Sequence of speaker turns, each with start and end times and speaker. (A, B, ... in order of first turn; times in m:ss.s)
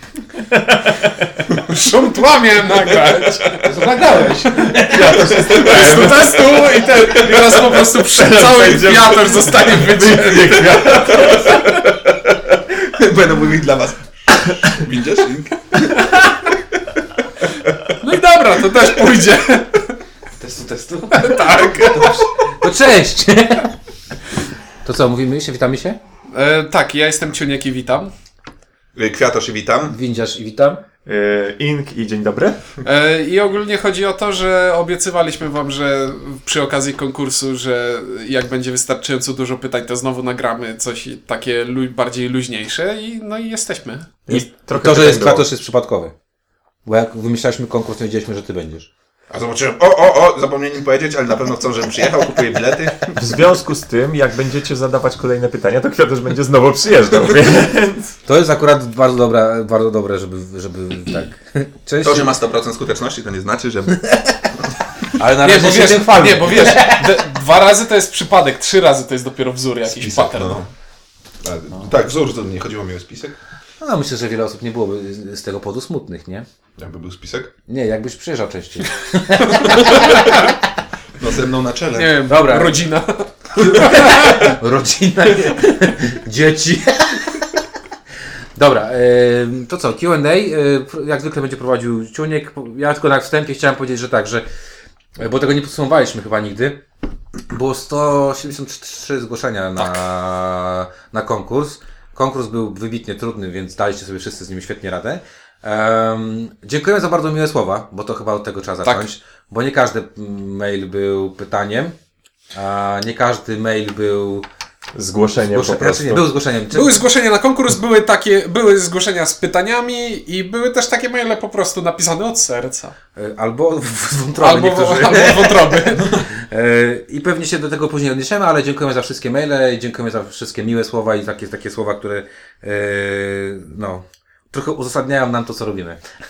0:00.5-0:01.2 A
0:01.6-0:03.6 B
0:03.5-0:05.7 C
0:04.6-0:06.5 A
0:05.3-0:06.2 D
0:05.4-0:11.0 B
0:08.1-0:11.8 A
0:10.9-0:11.9 D
0:12.7-0:16.1 D
0:17.5-0:17.9 D
0:18.0-0:19.9 B
0:20.4-0:23.7 C
0:21.1-0:22.2 B
0:24.8-0:26.0 C
0:26.3-0:28.1 B
0:29.0-0:29.9 D
0:29.9-0:30.8 C
0:31.0-0:32.6 A
0:32.8-0:44.1 B
0:44.3-0:45.5 A
0:44.3-0:46.1 C
0:46.8-0:48.9 C
0:49.3-0:53.2 D
0:53.2-0:58.1 A
0:58.2-1:02.3 C
1:02.0-1:04.0 D
1:05.2-1:07.2 C
1:05.4-1:10.6 B
1:09.9-1:10.7 D
1:11.4-1:13.4 D
1:13.8-1:16.5 C
1:16.8-1:17.5 D
1:17.7-1:20.5 C
1:19.4-1:20.2 B
1:21.2-1:22.2 D
1:22.0-1:24.5 B
1:22.2-1:22.8 C
1:23.6-1:27.4 C
1:28.6-1:34.4 C
1:35.2-1:36.8 C
1:37.5-1:51.9 C
1:52.5-1:54.4 C
1:54.9-1:56.3 A
1:55.4-1:57.0 C
1:56.7-2:02.9 B
2:03.1-2:16.0 C
2:04.4-2:06.2 B